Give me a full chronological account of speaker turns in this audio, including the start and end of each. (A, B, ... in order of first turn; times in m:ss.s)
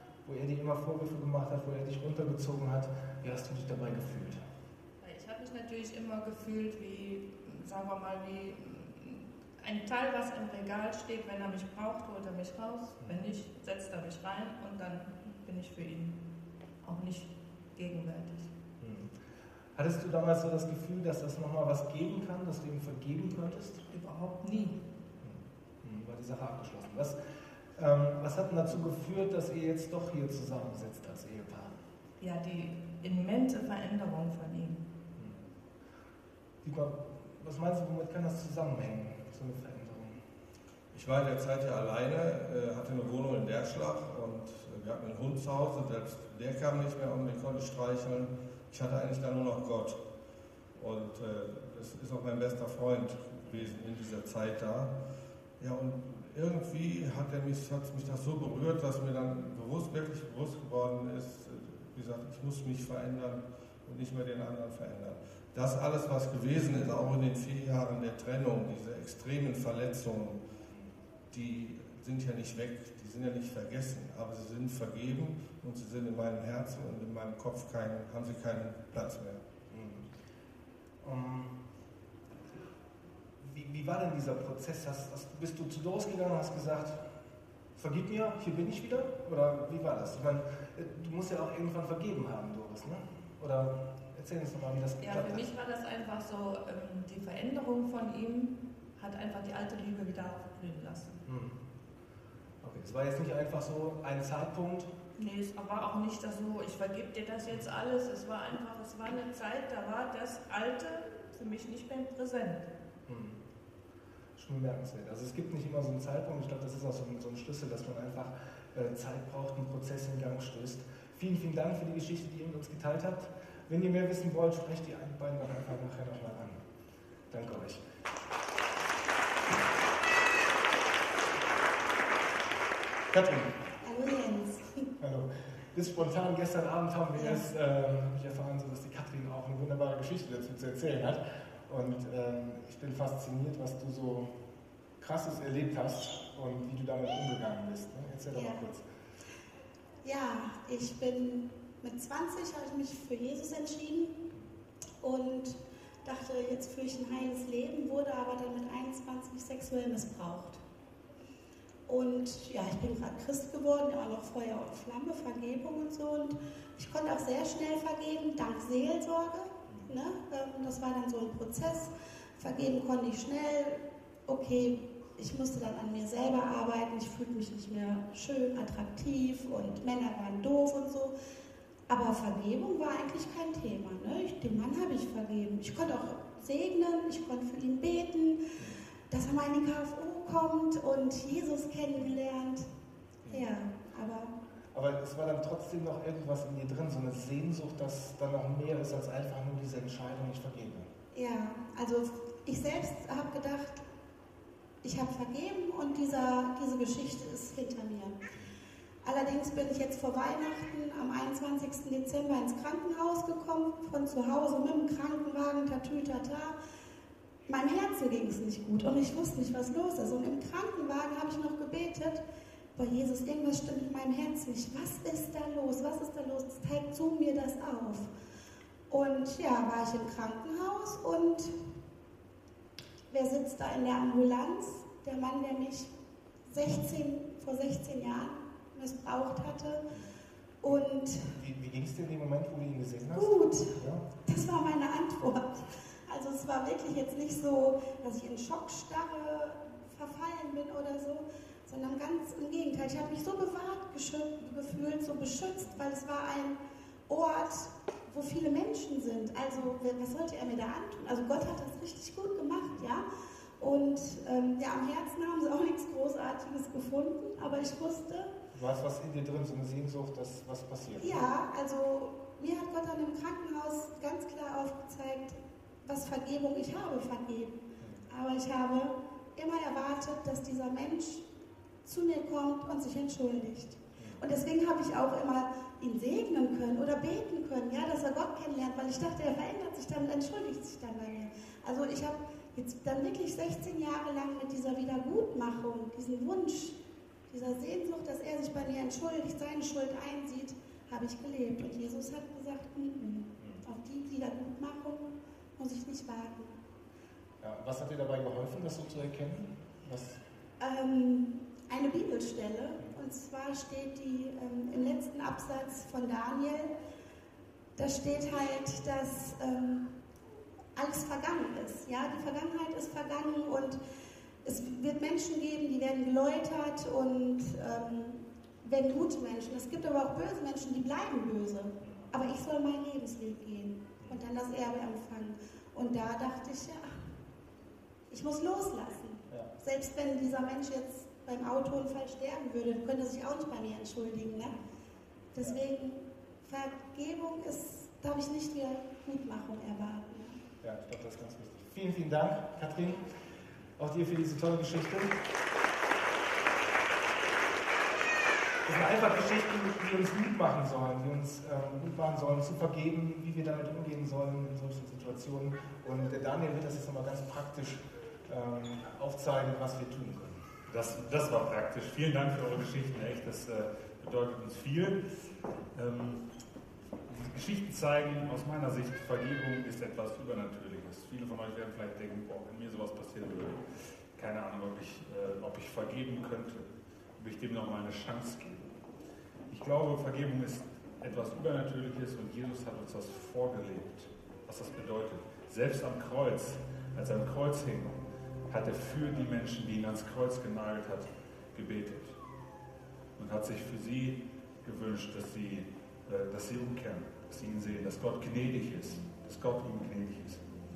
0:00.2-0:04.4 A
0:05.0-0:16.2 B
0:16.8-0:18.5 B
0:18.8-0:19.1 A
0:19.7-0:23.8 A
0:23.9-0:24.8 B
0:25.2-0:27.2 A
0:27.8-0:31.8 A
0:32.2-0:34.8 B
0:36.6-0:40.2 A
0:40.9-0:50.0 C
0:50.7-0:54.9 C
0:55.6-1:10.4 C
1:11.3-1:19.4 C
1:19.7-1:20.1 A
1:21.0-1:21.5 A
1:23.4-1:27.1 A
1:27.8-1:35.4 A
1:35.0-1:41.2 B
1:41.2-1:41.6 A
1:42.6-1:44.9 A
1:45.2-1:52.6 B
1:53.1-1:53.4 A
1:54.4-2:06.6 A
2:07.3-2:07.8 A
2:13.1-2:13.5 A
2:13.8-2:14.8 D
2:15.0-2:24.3 A
2:17.2-2:17.4 D
2:25.0-2:28.8 A
2:28.3-2:28.6 D
2:30.0-2:34.2 D
2:35.0-2:40.6 D
2:41.9-3:01.1 D
2:59.5-2:59.8 A
3:01.9-3:08.5 D
3:09.1-3:12.6 D
3:13.2-3:13.5 A
3:13.3-3:14.3 D
3:14.7-3:20.9 A
3:21.1-3:23.8 D
3:24.8-3:28.2 D
3:29.0-3:36.6 D
3:37.5-3:42.2 D
3:42.8-3:48.1 D
3:48.9-3:51.5 D
3:53.1-3:55.9 D
3:56.5-3:59.9 D
4:00.6-4:01.2 D
4:00.7-4:04.0 A
4:03.1-4:16.6 D
4:17.1-4:23.0 D
4:23.6-4:28.3 D
4:28.5-4:31.2 A
4:31.0-4:41.2 D
4:41.8-4:56.8 D
4:44.0-4:44.2 A
4:57.3-5:06.5 D
5:03.4-5:03.6 A
5:07.4-5:10.2 A
5:10.6-5:16.7 D
5:17.8-5:19.8 D
5:20.7-5:23.8 D
5:24.4-5:36.9 D
5:38.1-5:44.6 D
5:45.3-5:50.4 D
5:50.6-5:53.1 A
5:53.8-5:55.2 A
5:58.6-6:10.4 A
6:10.7-6:15.0 E
6:15.7-6:16.2 E
6:17.1-6:23.6 E
6:24.1-6:26.7 E
6:27.2-6:28.7 E
6:29.5-6:42.2 E
6:43.2-6:50.4 E